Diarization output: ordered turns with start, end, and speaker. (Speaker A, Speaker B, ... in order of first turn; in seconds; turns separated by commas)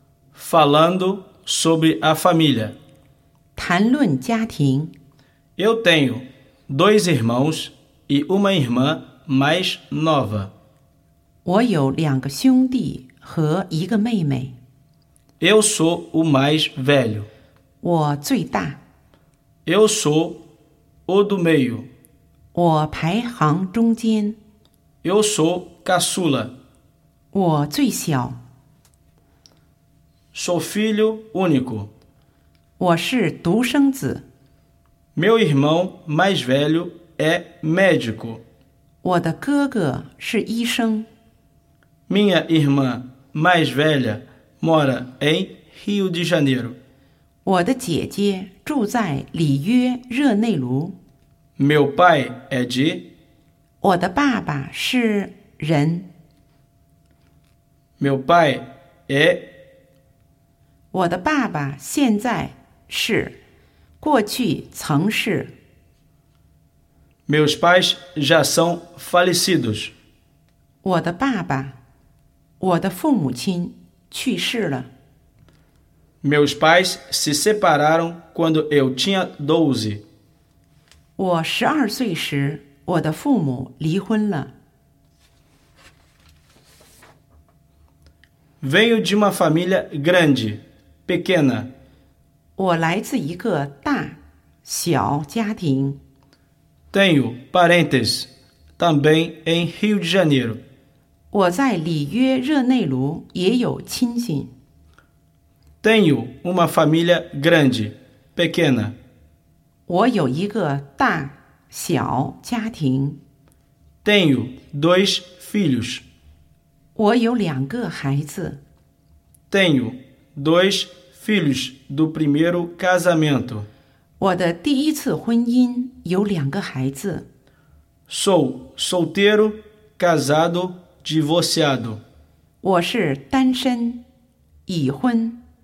Speaker A: 0.3-2.8, Speaker B: 3.5-4.9, Speaker A: 5.6-10.5, Speaker B: 11.4-14.6, Speaker A: 15.4-17.3, Speaker B: 17.8-18.8, Speaker A: 19.6-20.4, Speaker A: 21.1-21.9, Speaker B: 22.5-24.4, Speaker A: 25.0-26.5, Speaker B: 27.3-28.4, Speaker A: 30.3-31.9, Speaker B: 32.8-34.2, Speaker A: 35.1-38.4, Speaker B: 39.0-41.1, Speaker A: 42.1-46.8, Speaker B: 47.4-50.9, Speaker A: 51.6-53.1, Speaker B: 53.8-56.0, Speaker A: 58.0-59.5, Speaker B: 60.9-63.4, Speaker B: 64.0-65.5, Speaker A: 67.3-69.9, Speaker B: 70.8-71.8, Speaker B: 72.6-74.9, Speaker A: 76.2-80.0, Speaker B: 81.2-84.5, Speaker A: 88.6-91.7, Speaker B: 92.6-96.0, Speaker A: 96.9-100.6, Speaker B: 101.3-104.5, Speaker A: 105.8-109.0, Speaker B: 109.9-113.2, Speaker A: 114.0-116.0, Speaker B: 117.0-118.6, Speaker A: 119.5-123.7, Speaker B: 124.2-127.2, Speaker A: 128.1-132.0, Speaker B: 132.6-134.0, Speaker B: 134.7-135.4